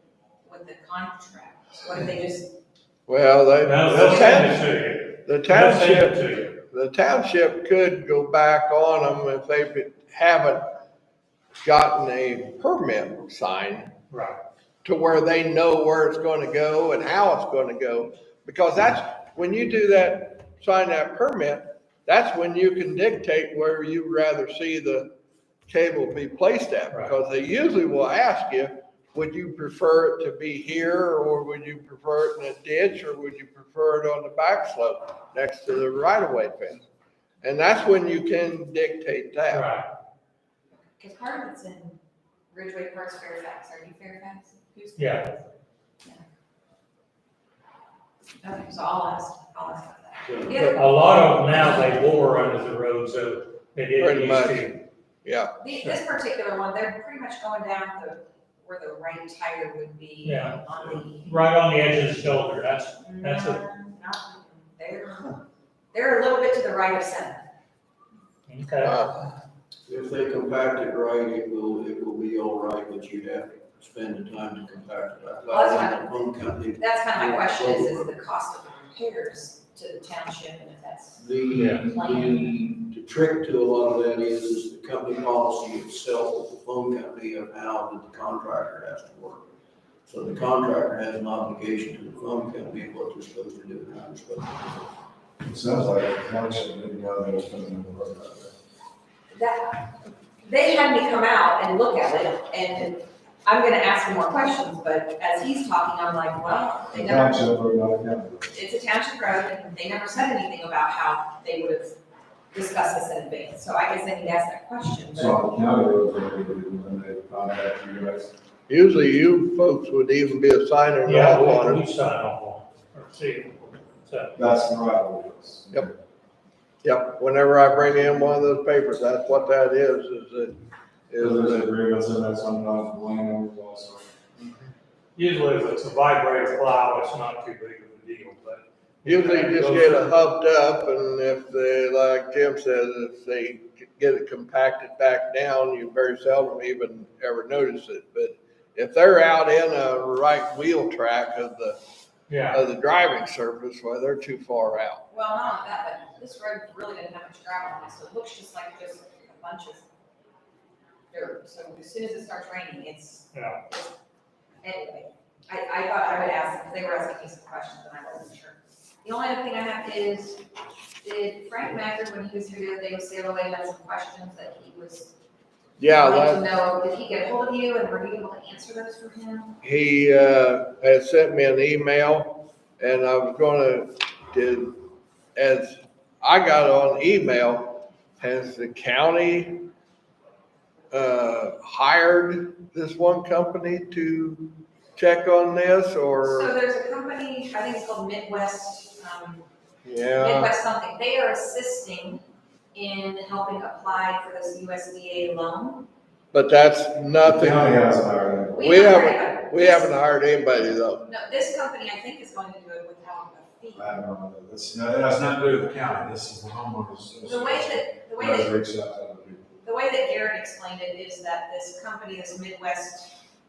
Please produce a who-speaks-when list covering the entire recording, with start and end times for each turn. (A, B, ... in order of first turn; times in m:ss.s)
0:00.4-0:02.6 A
0:03.1-0:04.6 B
0:03.6-0:06.5 C
0:05.2-0:10.7 B
0:11.6-0:13.9 B
0:14.1-0:14.4 C
0:14.8-0:25.1 B
0:25.7-0:36.8 B
0:37.4-0:39.7 B
0:39.5-0:39.9 C
0:40.8-0:42.0 A
0:42.5-0:45.4 A
0:45.0-0:45.3 C
0:48.4-0:50.8 A
0:50.5-0:54.8 C
0:54.0-0:55.6 B
0:55.6-1:01.5 A
1:00.2-1:00.6 C
1:01.2-1:03.6 C
1:03.0-1:07.4 A
1:08.5-1:09.0 C
1:08.8-1:09.2 B
1:09.9-1:18.1 D
1:15.5-1:16.2 A
1:16.8-1:22.4 A
1:21.2-1:29.5 D
1:21.5-1:21.8 C
1:30.1-1:34.8 D
1:35.4-1:38.5 E
1:39.3-1:47.5 A
1:46.9-1:48.5 E
1:48.5-1:52.0 A
1:52.5-1:55.4 A
1:55.2-1:58.3 E
1:58.7-2:01.8 B
2:01.0-2:04.3 C
2:04.4-2:06.0 E
2:06.8-2:10.6 B
2:11.1-2:11.7 B
2:11.2-2:14.1 E
2:15.2-2:20.1 C
2:19.0-2:31.8 B
2:32.3-2:32.6 C
2:32.5-2:35.0 B
2:35.1-2:39.9 A
2:41.1-2:44.0 A
2:43.3-2:43.6 C
2:44.6-2:50.4 A
2:51.0-2:55.1 A
2:55.8-2:56.4 B
2:55.8-2:59.6 A
2:59.6-3:04.8 B
3:05.4-3:09.7 B
3:10.9-3:16.5 B
3:16.2-3:19.5 A
3:19.8-3:20.5 B
3:20.1-3:22.2 A
3:22.8-3:25.9 A
3:26.3-3:27.9 B
3:27.2-3:28.8 E
3:28.5-3:29.9 A
3:28.6-3:31.1 B
3:30.6-3:34.0 A
3:33.8-3:39.6 E
3:37.2-3:38.5 A
3:39.6-3:43.2 A